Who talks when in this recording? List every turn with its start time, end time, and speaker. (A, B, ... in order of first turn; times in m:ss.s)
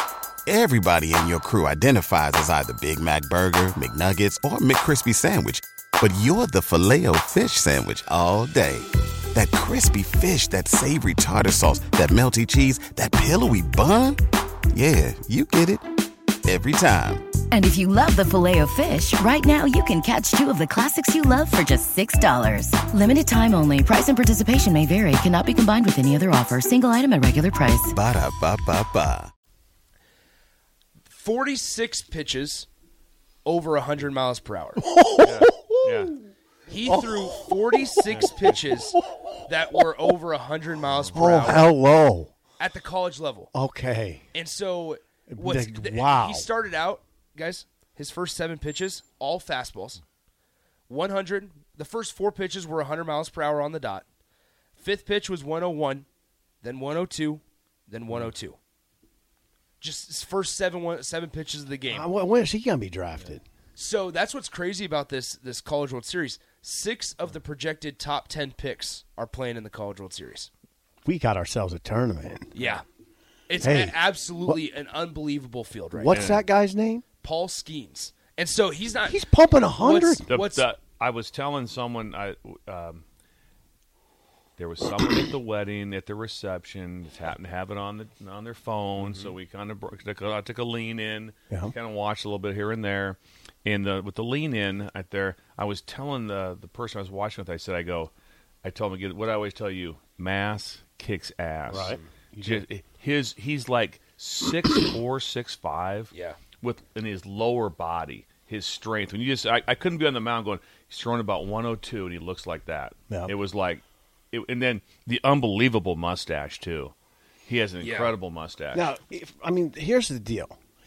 0:00.5-0:14.2 A
0:14.7-0:15.9 A
0:16.4-0:17.3 A
0:17.5-0:27.9 B
0:27.9-0:29.3 A
0:31.1-0:32.7 C
0:33.4-0:34.8 C
0:34.8-0:36.1 D
0:35.2-0:36.1 E
0:36.7-0:41.7 C
0:36.9-0:37.5 D
0:40.9-0:41.2 E
0:41.1-0:42.3 D
0:42.6-0:43.5 C
0:43.5-0:44.2 D
0:44.3-0:50.0 C
0:45.3-0:46.5 D
0:50.9-0:54.0 C
0:54.8-0:56.1 C
0:56.6-0:58.6 C
0:59.8-1:02.1 C
1:01.9-1:03.4 D
1:03.8-1:10.5 C
1:11.0-1:12.5 D
1:12.5-1:12.8 C
1:13.5-1:16.3 C
1:13.6-1:14.6 D
1:16.0-1:17.0 D
1:16.1-1:16.4 E
1:17.2-1:19.2 C
1:19.1-1:20.2 D
1:19.8-1:20.7 C
1:20.3-1:23.0 E
1:24.6-1:38.1 E
1:38.6-1:56.9 E
1:41.7-1:42.6 D
1:46.1-1:46.4 C
1:57.5-1:58.9 E
1:57.8-1:58.1 C
1:58.7-2:00.6 D